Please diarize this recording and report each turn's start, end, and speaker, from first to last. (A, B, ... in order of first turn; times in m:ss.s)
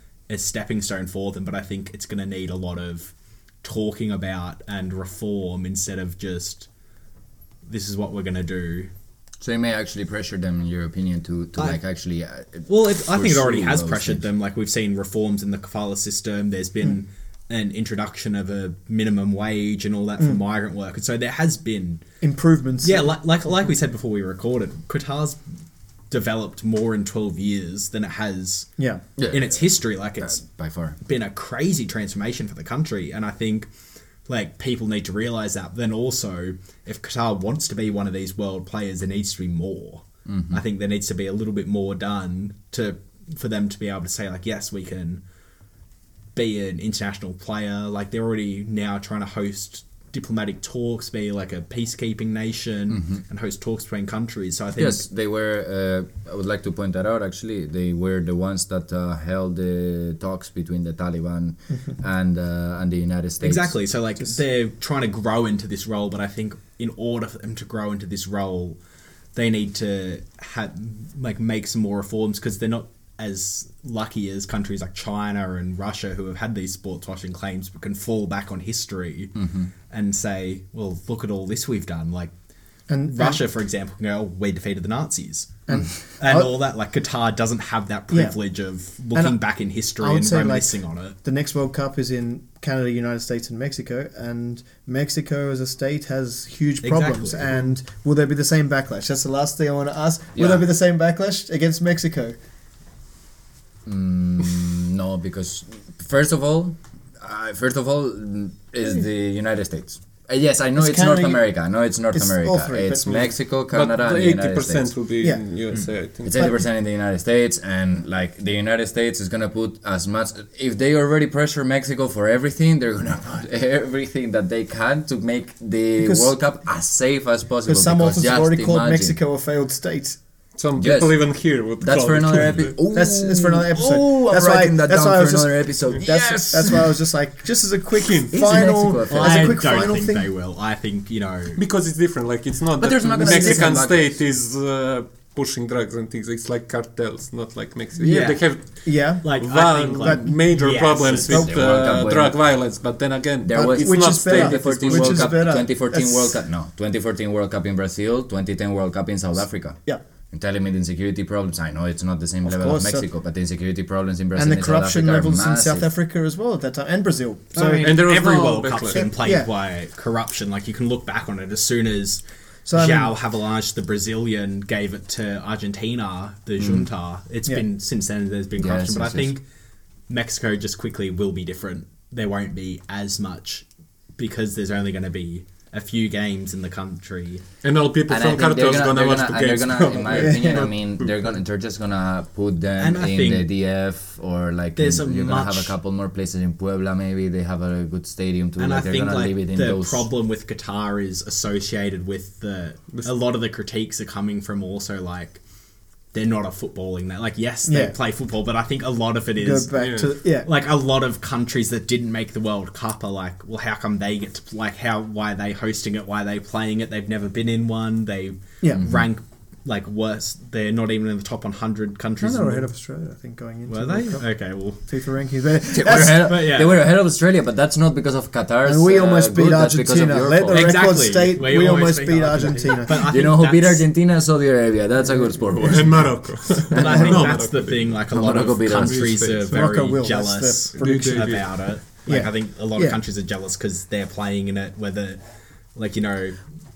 0:00.3-0:06.7 A
0:07.7-0:08.9 A
0:09.4-0:14.2 B
0:12.6-0:22.0 A
0:22.2-0:23.1 C
0:22.8-0:25.4 A
0:26.1-0:28.8 A
0:29.2-0:31.0 B
0:29.3-0:30.4 A
0:31.0-0:33.7 A
0:34.2-0:45.2 A
0:40.2-0:40.6 B
0:46.3-0:55.0 A
0:52.9-0:53.2 B
0:54.8-1:03.8 B
1:03.4-1:08.8 A
1:09.3-1:19.4 A
1:19.4-1:19.7 B
1:19.9-1:22.3 A
1:22.9-1:23.4 C
1:23.0-1:31.2 A
1:25.7-1:26.5 C
1:25.7-1:26.0 B
1:29.1-1:42.4 C
1:36.8-1:37.7 A
1:40.4-1:40.6 B
1:43.8-1:55.0 B
1:50.8-1:51.4 C
1:52.1-1:53.3 C
1:53.7-1:56.6 D
1:56.2-2:09.2 B
1:56.3-1:56.6 C
2:06.0-2:06.3 C
2:07.6-2:10.2 C
2:10.6-2:12.8 D
2:10.8-2:17.0 B
2:12.9-2:20.3 C
2:18.0-2:18.7 D
2:18.3-2:19.6 B
2:19.0-2:21.6 A
2:21.6-2:35.4 D
2:22.8-2:24.2 B
2:23.2-2:23.8 C
2:28.0-2:31.5 A
2:28.8-2:29.3 C
2:30.0-2:30.4 C
2:31.3-2:31.9 C
2:31.3-2:32.4 B
2:33.4-2:45.9 B
2:33.5-2:36.4 C
2:42.4-2:43.0 C
2:44.3-2:47.9 C
2:47.5-2:59.4 A
2:47.8-2:49.0 D
2:48.9-2:49.5 C
2:52.6-2:53.1 C
2:56.6-2:56.9 B
2:58.6-2:59.3 B
3:00.1-3:07.4 A
3:07.6-3:11.3 D
3:08.1-3:20.1 B
3:10.1-3:10.7 C
3:12.8-3:13.5 A
3:14.8-3:15.7 A
3:18.6-3:25.4 A
3:26.1-3:29.8 A
3:27.7-3:27.9 C
3:29.4-3:30.5 C
3:29.7-3:30.1 D
3:30.4-3:42.7 A
3:38.7-3:39.1 B
3:42.2-3:46.4 C
3:43.6-3:44.8 A
3:45.6-3:51.0 B
3:46.0-3:46.8 A
3:48.6-3:53.1 C
3:50.5-3:53.9 A
3:53.0-3:57.4 B
3:55.6-3:59.8 D
3:56.7-4:05.2 A
3:56.8-3:57.3 C
3:58.1-3:59.4 B
3:59.5-4:03.0 C
4:00.8-4:01.8 D
4:05.7-4:06.4 A